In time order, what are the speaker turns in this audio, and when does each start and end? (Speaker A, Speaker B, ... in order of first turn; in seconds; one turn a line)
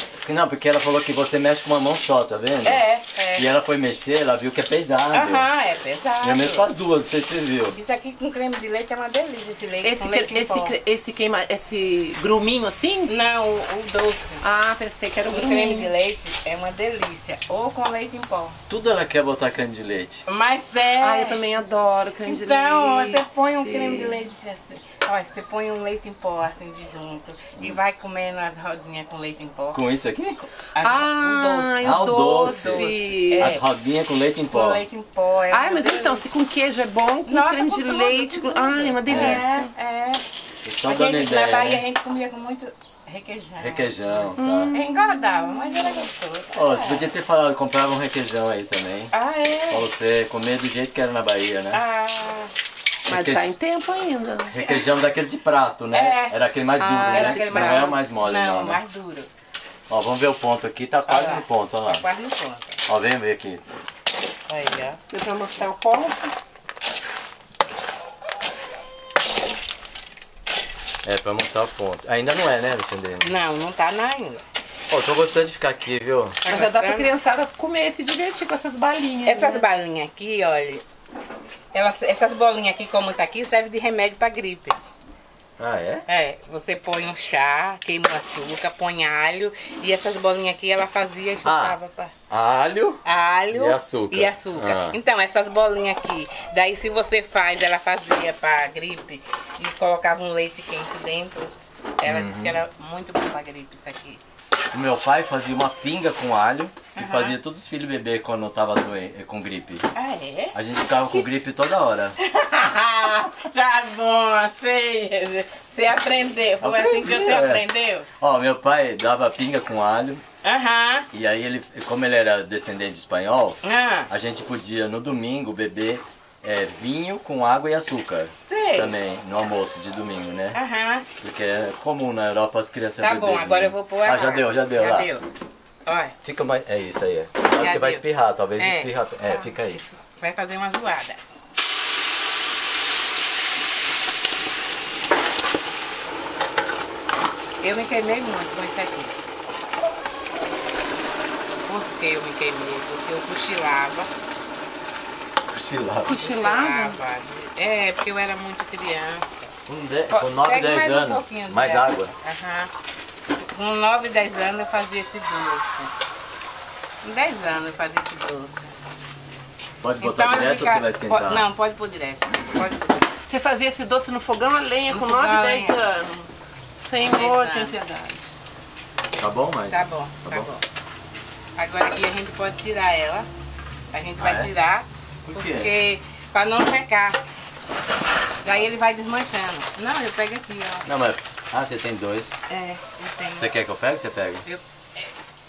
Speaker A: 0.2-2.8
Speaker B: 2.6-3.5
Speaker A: 3.4-5.5
Speaker B: 5.1-6.7
Speaker A: 6.2-7.8
Speaker B: 7.7-10.7
Speaker C: 9.8-13.1
Speaker B: 13.1-14.4
Speaker C: 14.4-15.9
Speaker B: 15.3-18.6
Speaker A: 18.7-20.2
Speaker B: 20.3-21.4
Speaker C: 21.0-24.2
Speaker B: 22.2-29.8
Speaker A: 29.7-30.5
Speaker B: 30.7-33.6
Speaker C: 30.8-33.5
Speaker A: 31.8-32.9
Speaker A: 33.4-34.8
Speaker B: 34.5-36.2
Speaker C: 35.5-39.7
Speaker B: 37.2-40.2
Speaker A: 39.1-39.5
Speaker A: 40.6-41.8
Speaker B: 40.8-47.0
Speaker A: 43.6-44.8
Speaker C: 44.4-44.8
Speaker A: 46.5-49.1
Speaker B: 49.1-49.9
Speaker A: 49.7-51.8
Speaker B: 51.7-52.5
Speaker C: 53.0-54.7
Speaker A: 53.1-53.5
Speaker A: 54.5-58.8
Speaker B: 55.9-56.4
Speaker C: 56.8-57.9
Speaker B: 57.0-59.3
Speaker A: 59.9-62.1
Speaker B: 61.1-62.8
Speaker A: 62.9-63.6
Speaker B: 64.5-65.0
Speaker C: 65.1-66.3
Speaker A: 71.0-73.3
Speaker B: 73.2-74.4
Speaker A: 74.9-76.4
Speaker B: 76.4-77.1
Speaker C: 76.5-79.6
Speaker B: 79.2-80.8
Speaker B: 81.7-84.8
Speaker A: 85.6-86.0
Speaker B: 86.1-92.1
Speaker A: 91.4-91.8
Speaker A: 92.3-93.0
Speaker B: 93.0-104.2
Speaker A: 93.5-95.0
Speaker A: 102.0-102.5
Speaker A: 104.7-109.8
Speaker B: 107.0-107.4
Speaker B: 109.9-110.5
Speaker A: 110.5-112.2
Speaker B: 112.2-118.1
Speaker A: 116.6-117.7
Speaker A: 118.2-120.2
Speaker B: 120.4-121.1
Speaker A: 121.1-130.6
Speaker B: 123.6-124.1
Speaker B: 128.4-128.9
Speaker B: 130.5-131.1
Speaker A: 131.2-135.1
Speaker B: 133.0-135.2
Speaker B: 135.8-136.1
Speaker A: 136.2-139.8
Speaker B: 137.6-138.0
Speaker B: 138.6-141.2
Speaker B: 147.6-149.2
Speaker B: 151.7-154.1
Speaker A: 155.5-156.1
Speaker C: 156.1-157.0
Speaker B: 156.1-159.3
Speaker A: 159.7-162.1
Speaker B: 160.1-162.7
Speaker B: 163.5-165.9
Speaker B: 167.0-168.7
Speaker A: 169.8-171.5
Speaker B: 170.0-173.1
Speaker C: 173.3-176.2
Speaker B: 174.9-176.2
Speaker C: 176.8-178.4
Speaker B: 177.0-177.8
Speaker A: 179.2-180.5
Speaker B: 179.7-180.6
Speaker B: 181.6-183.3
Speaker B: 183.9-187.2
Speaker A: 184.2-184.5
Speaker A: 185.2-185.7
Speaker B: 188.4-190.8
Speaker A: 190.8-192.4
Speaker B: 192.5-193.5
Speaker A: 193.3-194.4
Speaker B: 194.4-195.1